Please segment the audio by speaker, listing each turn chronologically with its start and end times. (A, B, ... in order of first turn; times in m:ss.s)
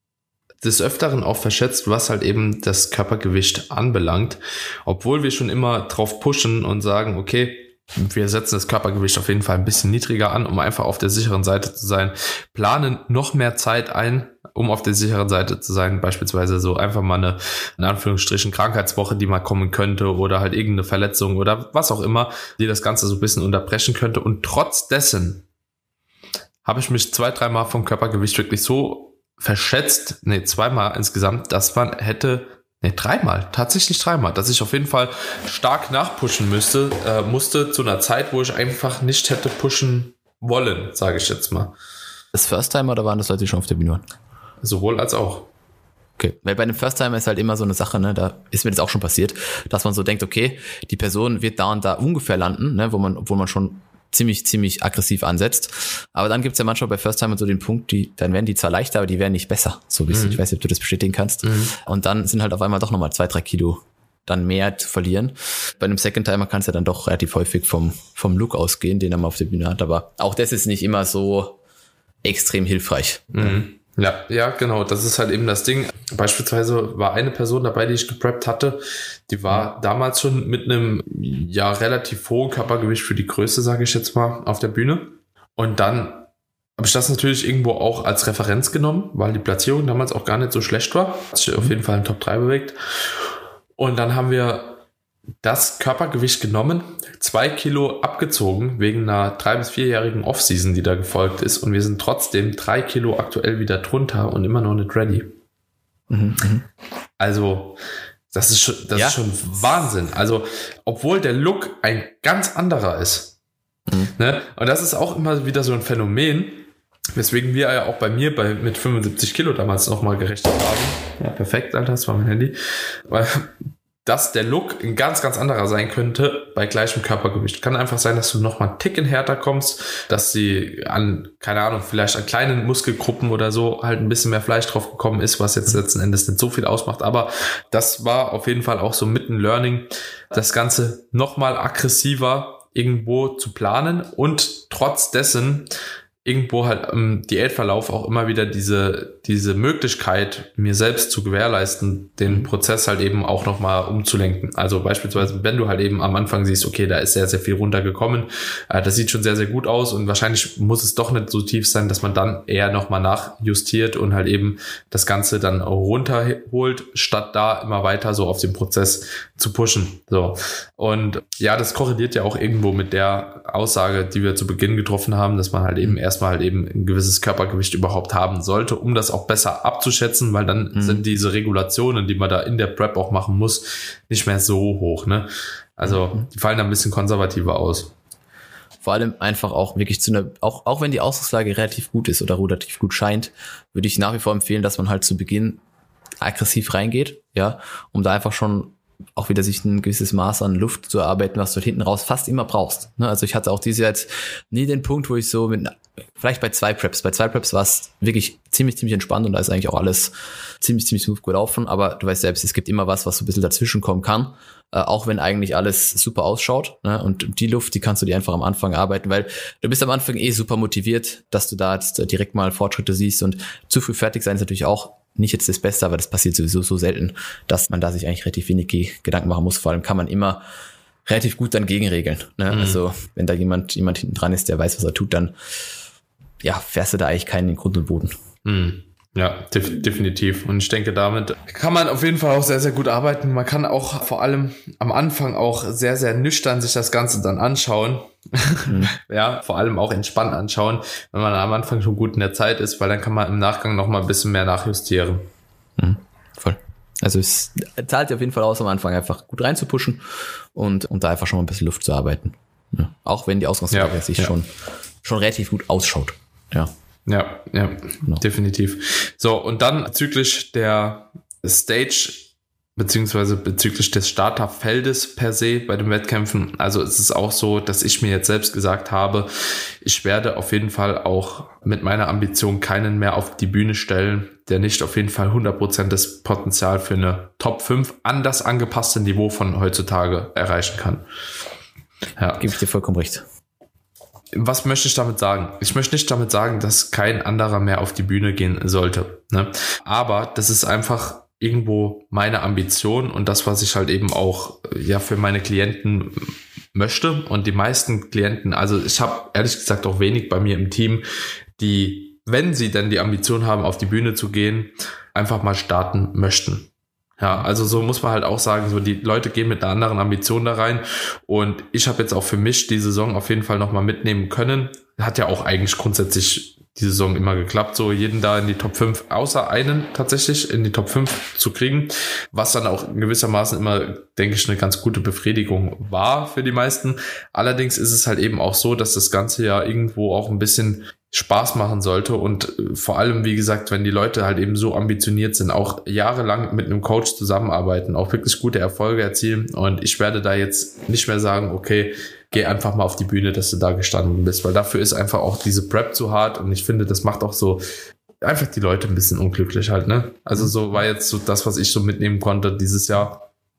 0:00.6-0:25.4 A
0:26.6-0:41.7 A
0:42.3-0:44.0 B
0:44.6-0:45.5 A
0:46.2-1:11.6 B
1:00.1-1:00.4 A
1:01.4-1:01.7 A
1:12.2-1:13.6 B
1:13.3-1:26.3 A
1:26.8-1:32.8 A
1:33.8-1:34.8 A
1:35.4-1:45.3 A
1:46.1-1:46.6 B
1:47.2-1:47.8 A
1:48.3-1:53.3 A
1:53.9-1:54.1 B
1:54.1-2:02.5 A
2:03.1-2:03.5 A
2:04.0-2:25.7 A
2:26.2-3:07.9 A
3:00.7-3:01.0 B
3:05.8-3:06.2 B
3:08.8-3:15.6 B
3:16.2-3:50.4 B
3:51.0-3:55.3 B
3:52.5-3:52.8 A
3:56.4-3:58.2 B
3:58.4-4:15.3 A
4:08.6-4:08.9 B
4:15.8-4:20.0 B
4:20.5-4:24.5 B
4:23.7-4:24.3 A
4:25.0-4:26.7 B
4:27.1-4:39.3 A
4:39.8-4:51.0 A
4:52.2-4:52.5 A
4:52.4-4:53.2 B
4:54.3-5:11.0 A
5:11.6-5:57.6 A
5:58.2-6:03.2 A